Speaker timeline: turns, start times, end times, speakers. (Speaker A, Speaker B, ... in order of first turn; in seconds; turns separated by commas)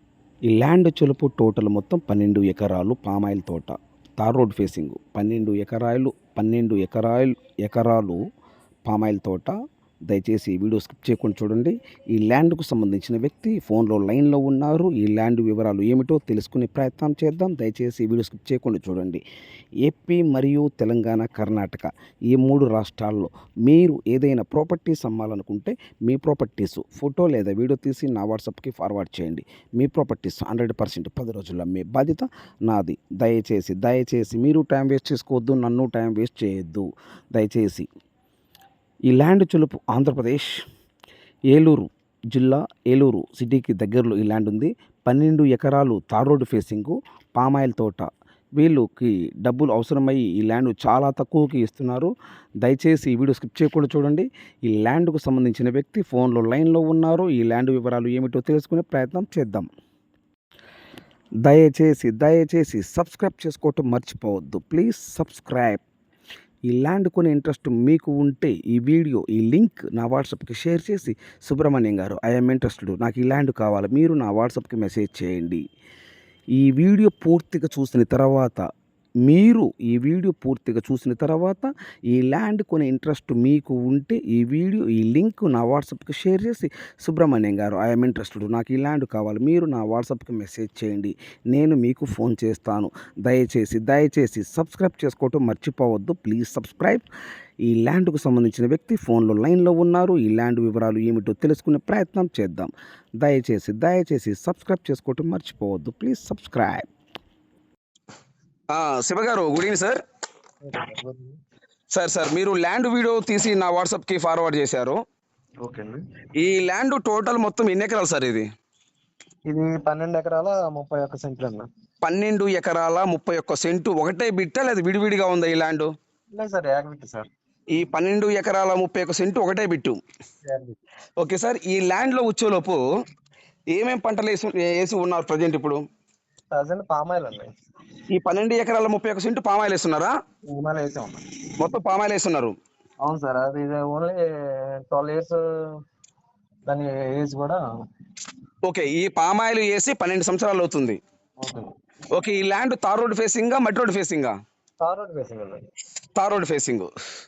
Speaker A: 0.5-8.2, Speaker A: 8.9-9.6, Speaker A: 10.1-19.2, Speaker A: 19.8-37.9, Speaker A: 39.1-40.5, Speaker A: 41.5-59.7, Speaker A: 61.4-65.8, Speaker A: 66.7-75.6, Speaker A: 76.5-78.7, Speaker A: 79.2-97.0, Speaker A: 97.6-106.9, Speaker B: 108.7-110.0, Speaker C: 110.6-111.3, Speaker B: 111.9-115.0, Speaker C: 115.6-116.0, Speaker B: 116.4-118.4, Speaker C: 119.5-121.7, Speaker B: 122.0-125.9, Speaker C: 126.3-127.3, Speaker B: 127.7-130.0, Speaker C: 130.4-130.8, Speaker B: 131.2-132.8, Speaker B: 133.8-135.8, Speaker C: 136.5-137.5, Speaker B: 138.1-140.1, Speaker C: 140.5-141.2, Speaker B: 141.6-142.6, Speaker C: 143.0-144.2, Speaker C: 144.9-145.4, Speaker C: 146.7-147.6, Speaker B: 148.6-151.0, Speaker C: 151.4-151.7, Speaker B: 152.1-154.3, Speaker C: 154.8-155.7, Speaker B: 156.2-156.9